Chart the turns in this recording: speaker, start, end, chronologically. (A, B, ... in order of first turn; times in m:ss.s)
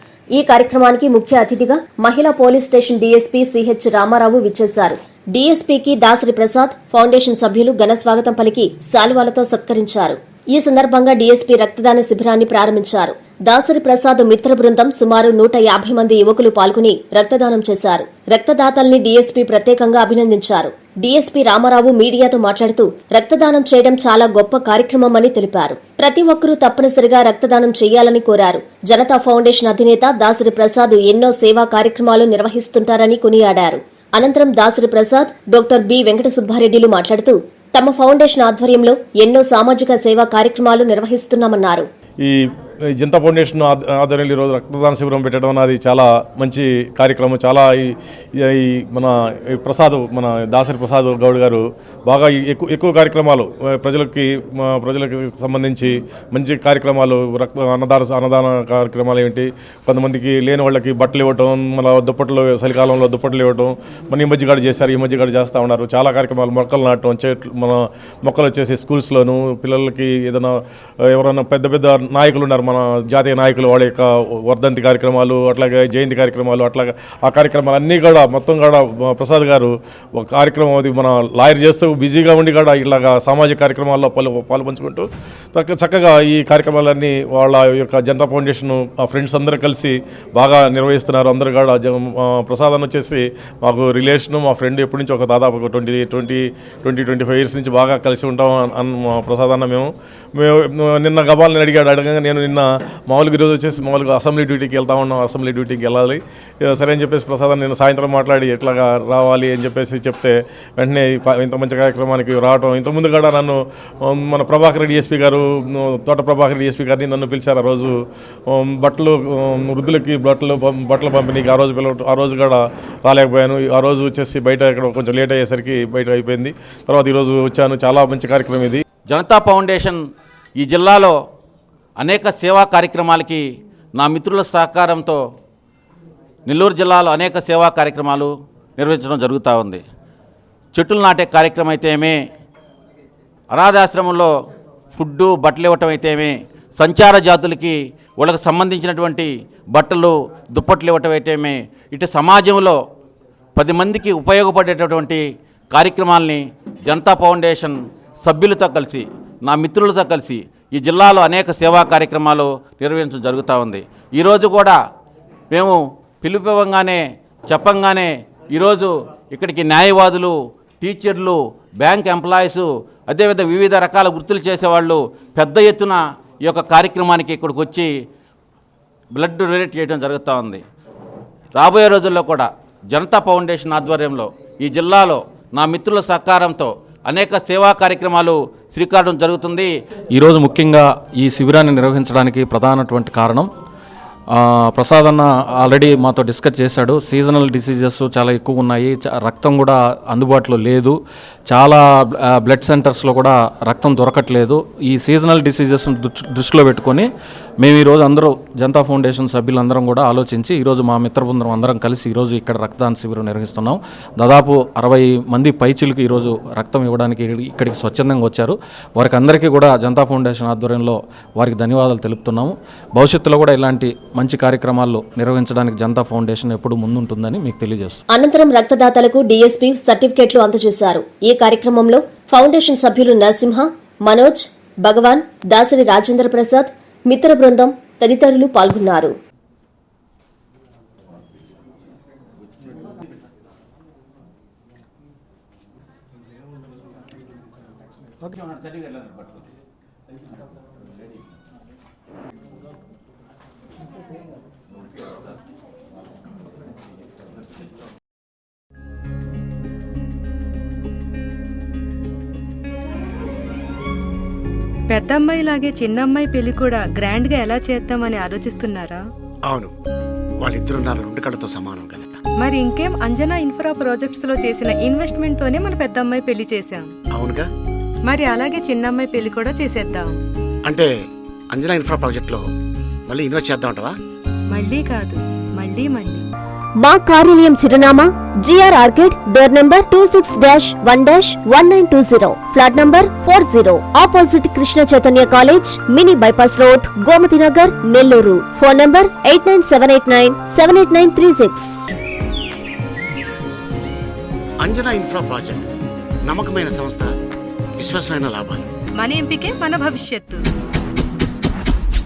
0:00.3-0:41.9 A
0:43.0-1:57.9 B
1:58.5-2:08.8 B
2:09.1-2:10.0 C
2:10.6-2:11.1 C
2:12.0-2:13.4 C
2:14.0-2:15.2 C
2:16.5-2:19.8 C
2:20.7-2:22.2 C
2:23.5-2:24.3 C
2:25.0-2:32.8 C
2:33.6-2:44.8 C
2:45.5-2:57.9 C
2:59.1-3:00.6 C
3:01.6-3:09.7 C
3:10.1-3:13.5 D
3:14.3-3:21.0 D
3:21.5-3:27.1 D
3:27.6-3:48.0 D
3:48.1-3:59.1 A
4:24.9-4:29.0 E
4:30.4-4:32.2 F
4:32.4-4:36.9 E
4:37.1-4:37.5 F
4:38.1-4:40.2 E
4:40.6-4:40.9 F
4:41.5-4:42.4 F
4:43.1-4:43.9 F
4:44.5-4:46.2 E
4:46.8-5:01.7 A
5:04.6-5:05.7 F
5:06.2-5:07.1 F
5:07.8-5:08.6 F
5:09.0-5:10.4 E